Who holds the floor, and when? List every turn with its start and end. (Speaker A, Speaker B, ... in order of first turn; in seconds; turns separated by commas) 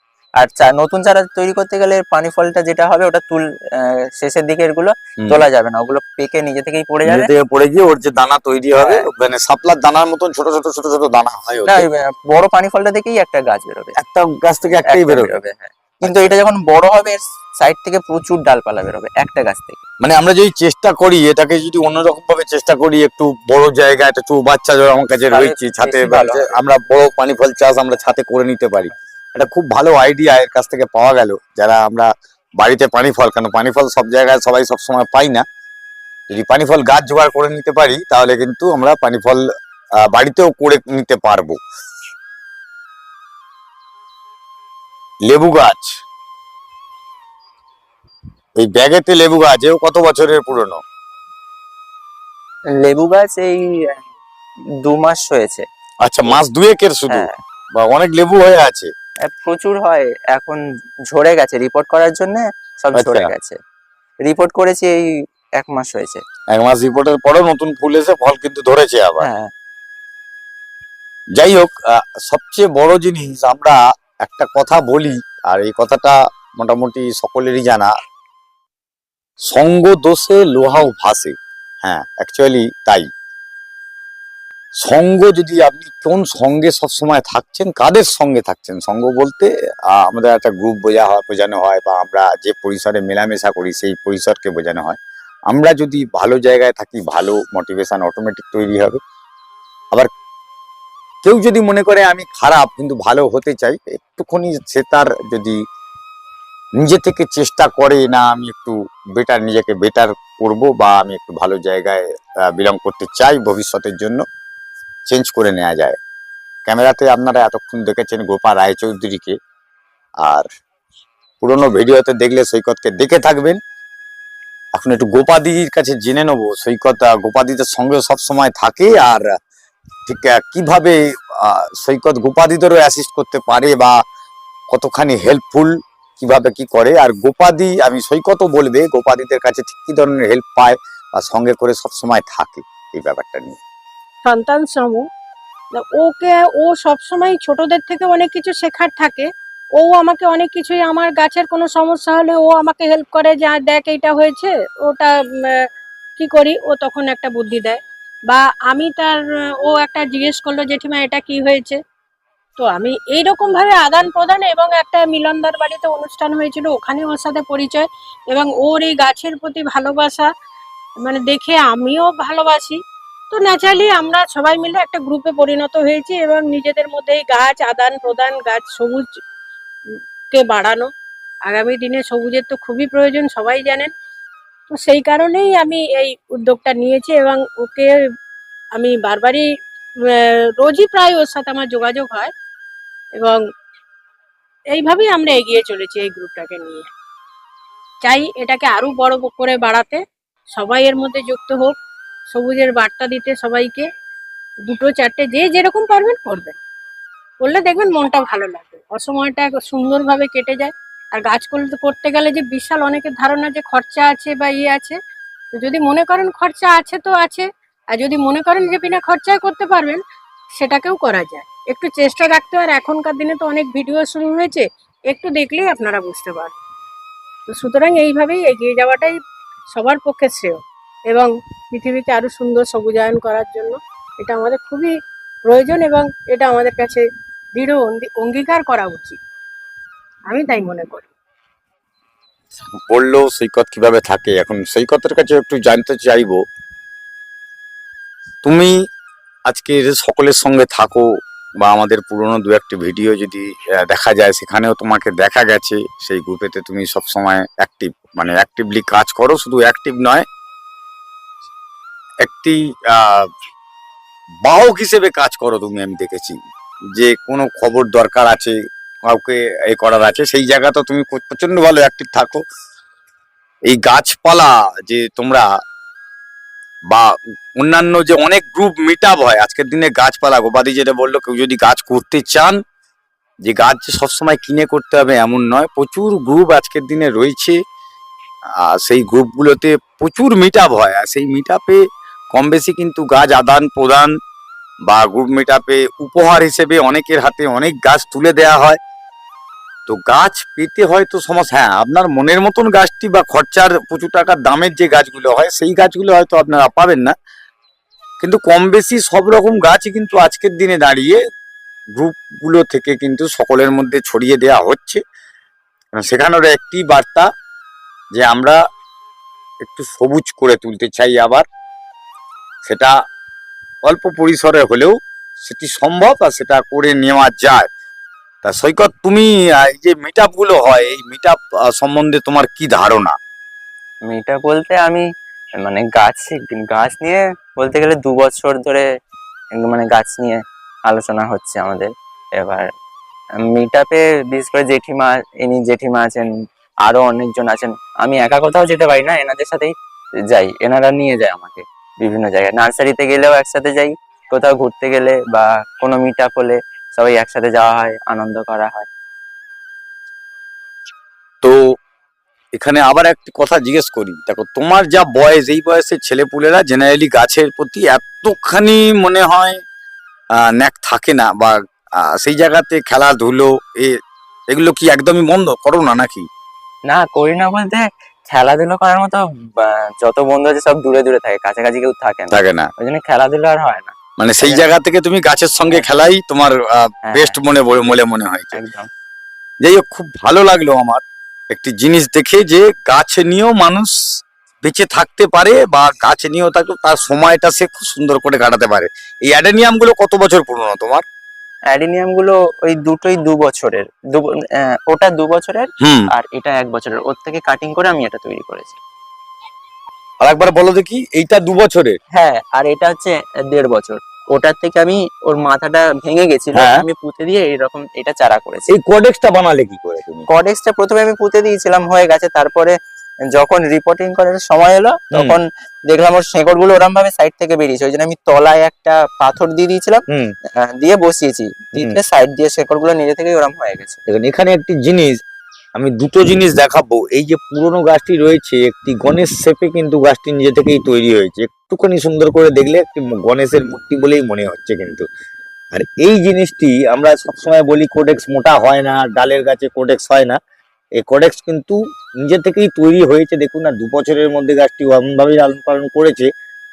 Speaker A: 0.4-7.3, Speaker B: 7.1-11.9, Speaker A: 8.8-9.1, Speaker A: 11.7-14.0, Speaker B: 14.0-15.3, Speaker A: 14.8-19.8, Speaker B: 16.0-16.4, Speaker B: 20.0-35.4, Speaker A: 25.3-26.6, Speaker B: 36.3-39.4, Speaker B: 40.1-41.6, Speaker B: 45.3-45.9, Speaker B: 48.6-50.8, Speaker A: 52.8-54.0, Speaker A: 54.8-55.6, Speaker B: 56.0-58.9, Speaker A: 57.1-57.4, Speaker A: 59.3-63.6, Speaker B: 62.9-63.3, Speaker A: 64.2-65.0, Speaker A: 65.6-66.2, Speaker B: 66.5-69.3, Speaker A: 69.2-69.5, Speaker B: 71.4-77.9, Speaker B: 79.5-83.1, Speaker B: 84.8-95.0, Speaker B: 95.5-99.0, Speaker B: 101.2-105.6, Speaker B: 106.8-114.2, Speaker B: 115.1-116.0, Speaker B: 116.7-119.4, Speaker B: 121.4-123.6, Speaker B: 124.8-129.2, Speaker B: 130.1-133.9, Speaker B: 134.7-143.6, Speaker C: 144.2-145.0, Speaker C: 145.8-155.6, Speaker C: 156.2-161.8, Speaker C: 162.6-170.3, Speaker C: 171.0-172.8, Speaker C: 173.3-179.1, Speaker C: 179.9-180.9, Speaker C: 181.5-183.9, Speaker C: 184.7-187.9, Speaker C: 188.8-189.4, Speaker C: 190.1-192.3, Speaker C: 194.7-196.9, Speaker C: 198.0-200.0, Speaker C: 200.5-201.7, Speaker C: 202.3-203.9, Speaker C: 204.7-206.6, Speaker C: 207.4-215.0, Speaker C: 215.5-220.0, Speaker C: 220.6-226.6, Speaker C: 227.5-229.2, Speaker C: 229.7-234.9, Speaker C: 235.5-237.0, Speaker C: 237.6-239.2, Speaker C: 240.3-241.1, Speaker B: 242.9-246.4, Speaker B: 248.4-248.7, Speaker B: 249.5-251.1, Speaker B: 251.6-260.2, Speaker B: 262.2-263.3, Speaker B: 264.4-266.4, Speaker B: 266.9-272.4, Speaker B: 273.7-275.5, Speaker B: 276.9-282.6, Speaker B: 283.4-287.6, Speaker B: 288.6-291.8, Speaker B: 292.3-294.1, Speaker B: 294.9-298.8, Speaker B: 299.9-307.1, Speaker B: 308.2-311.2, Speaker B: 312.0-315.0, Speaker B: 316.0-317.3, Speaker B: 318.1-318.6, Speaker B: 319.6-321.4, Speaker B: 322.6-322.9, Speaker B: 323.9-327.7, Speaker B: 328.4-333.1, Speaker A: 334.1-335.0, Speaker A: 335.6-338.9, Speaker A: 339.6-342.7, Speaker A: 343.4-346.3, Speaker A: 346.8-349.7, Speaker A: 350.3-358.9, Speaker B: 362.5-369.6, Speaker B: 370.4-374.0, Speaker B: 374.5-376.3, Speaker A: 376.9-384.7, Speaker B: 382.3-382.7, Speaker B: 384.2-388.6, Speaker A: 385.7-385.9, Speaker A: 387.1-387.4, Speaker A: 388.5-388.9, Speaker B: 389.6-393.9, Speaker B: 394.6-401.0, Speaker A: 401.7-408.8, Speaker B: 405.8-406.1, Speaker B: 410.2-412.0, Speaker A: 412.1-418.7, Speaker B: 416.6-416.9, Speaker B: 418.7-420.3, Speaker A: 420.3-422.7, Speaker A: 423.3-430.0, Speaker B: 425.1-425.4, Speaker A: 430.6-434.0, Speaker B: 434.1-435.2, Speaker B: 435.8-445.1, Speaker B: 445.7-450.4, Speaker B: 451.0-456.3